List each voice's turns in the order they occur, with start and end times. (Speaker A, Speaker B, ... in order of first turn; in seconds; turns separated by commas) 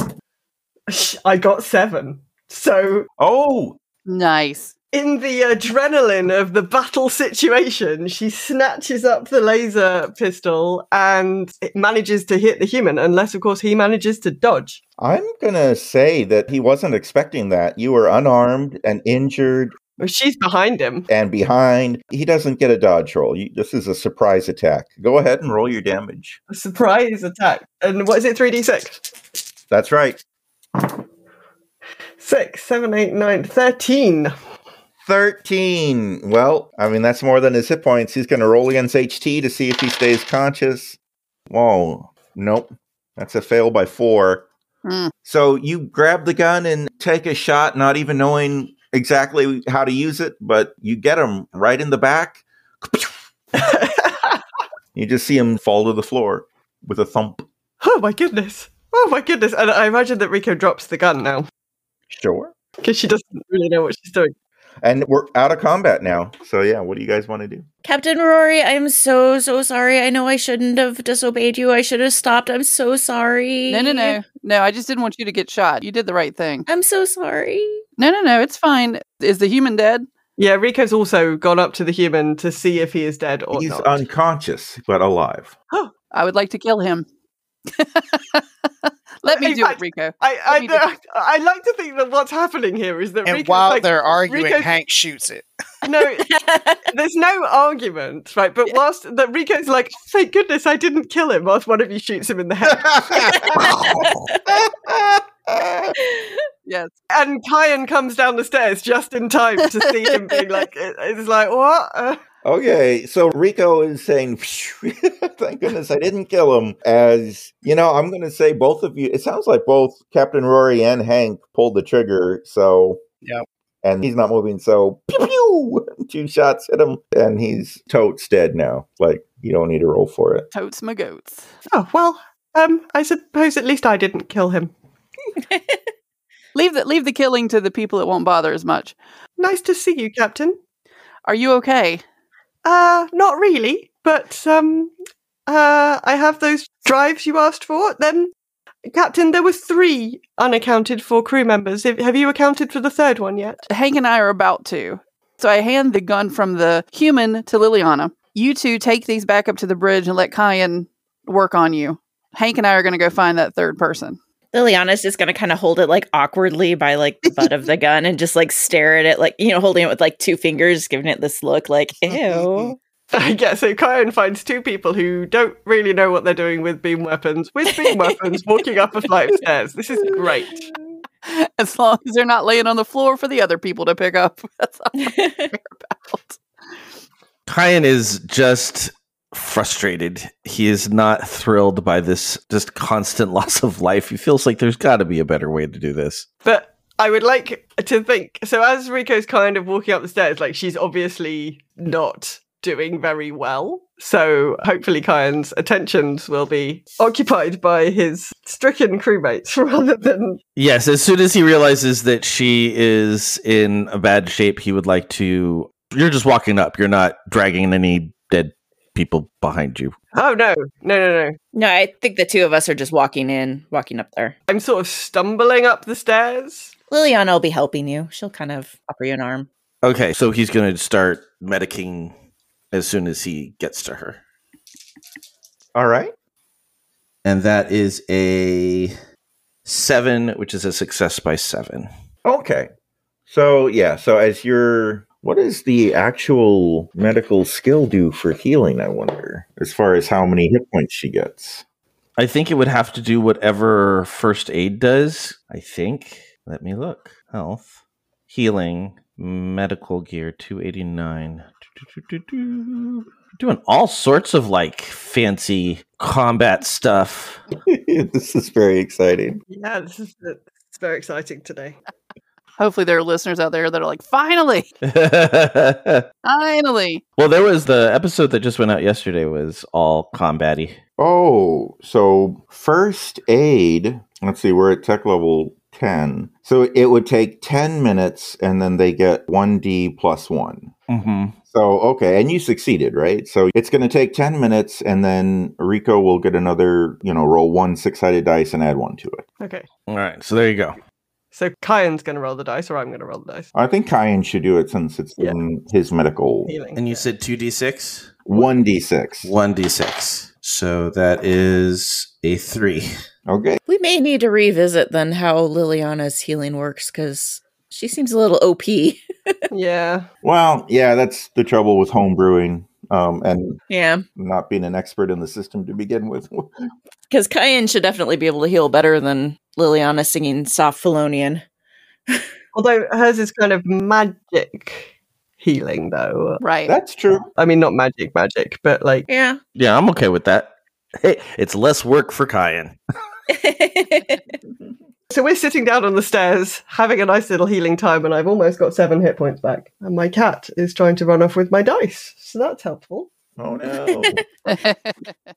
Speaker A: 0.9-3.1, Speaker B: 3.2-3.8, Speaker C: 4.0-4.7, Speaker A: 4.9-14.8, Speaker B: 15.0-19.8, Speaker A: 20.0-21.1, Speaker B: 21.1-26.4, Speaker A: 26.5-29.0, Speaker B: 29.7-30.2, Speaker A: 32.2-34.3, Speaker B: 35.0-41.0, Speaker B: 41.5-44.5, Speaker C: 44.8-45.1, Speaker B: 45.2-53.1, Speaker A: 53.6-54.4, Speaker B: 54.9-57.4, Speaker A: 57.8-61.5, Speaker B: 62.1-62.5, Speaker A: 62.8-64.3, Speaker B: 64.8-67.7, Speaker D: 67.8-74.2, Speaker C: 73.7-76.7, Speaker D: 76.7-77.8, Speaker C: 78.0-80.0, Speaker A: 80.4-84.0, Speaker B: 83.5-85.5, Speaker C: 86.1-87.0, Speaker C: 87.7-88.4, Speaker C: 89.2-90.8, Speaker A: 89.3-94.7, Speaker E: 93.2-95.5, Speaker A: 95.8-103.4, Speaker D: 96.4-96.8, Speaker B: 102.9-106.0, Speaker D: 103.3-104.5, Speaker D: 106.0-106.4, Speaker C: 106.7-106.9, Speaker A: 107.1-112.2, Speaker B: 112.4-123.0, Speaker B: 123.8-130.5, Speaker C: 130.5-131.5, Speaker A: 131.7-134.7, Speaker D: 135.5-135.8, Speaker C: 136.5-138.9, Speaker A: 139.4-140.6, Speaker C: 141.2-142.0, Speaker A: 142.6-144.9, Speaker A: 145.5-148.3, Speaker A: 148.9-153.6, Speaker C: 153.7-164.2, Speaker D: 164.5-172.8, Speaker A: 173.1-180.6, Speaker C: 181.2-186.4, Speaker D: 185.0-185.5, Speaker F: 187.5-196.2, Speaker A: 196.4-210.4, Speaker F: 210.6-219.9, Speaker A: 220.1-221.4, Speaker D: 221.5-224.3, Speaker A: 224.5-226.7, Speaker D: 226.9-229.5, Speaker F: 229.8-232.1, Speaker F: 232.7-234.2, Speaker B: 235.7-236.1, Speaker F: 237.2-238.9, Speaker F: 239.6-241.9, Speaker B: 242.2-242.7, Speaker B: 243.3-251.6, Speaker F: 252.2-267.4, Speaker B: 267.7-269.4, Speaker A: 269.5-271.8, Speaker C: 272.6-274.7, Speaker F: 274.9-276.0, Speaker C: 276.2-277.0, Speaker F: 277.2-280.8, Speaker B: 281.0-290.7, Speaker F: 290.9-291.3, Speaker B: 291.5-299.2, Speaker A: 299.4-299.7, Speaker F: 299.9-300.8, Speaker A: 301.3-303.5, Speaker B: 303.5-306.5, Speaker A: 306.5-307.1, Speaker F: 306.8-308.2, Speaker B: 308.2-309.3, Speaker F: 309.2-312.9, Speaker B: 313.3-313.6, Speaker D: 313.6-319.4, Speaker A: 319.5-320.1, Speaker B: 320.2-323.6, Speaker D: 323.7-324.0, Speaker B: 324.1-326.5, Speaker D: 327.1-331.4, Speaker A: 332.5-336.4, Speaker C: 336.4-336.7, Speaker B: 336.6-337.3, Speaker A: 337.4-339.1, Speaker D: 339.1-339.4, Speaker F: 339.5-342.8, Speaker D: 343.3-344.3, Speaker A: 345.1-353.1, Speaker B: 353.4-354.2, Speaker C: 354.4-355.1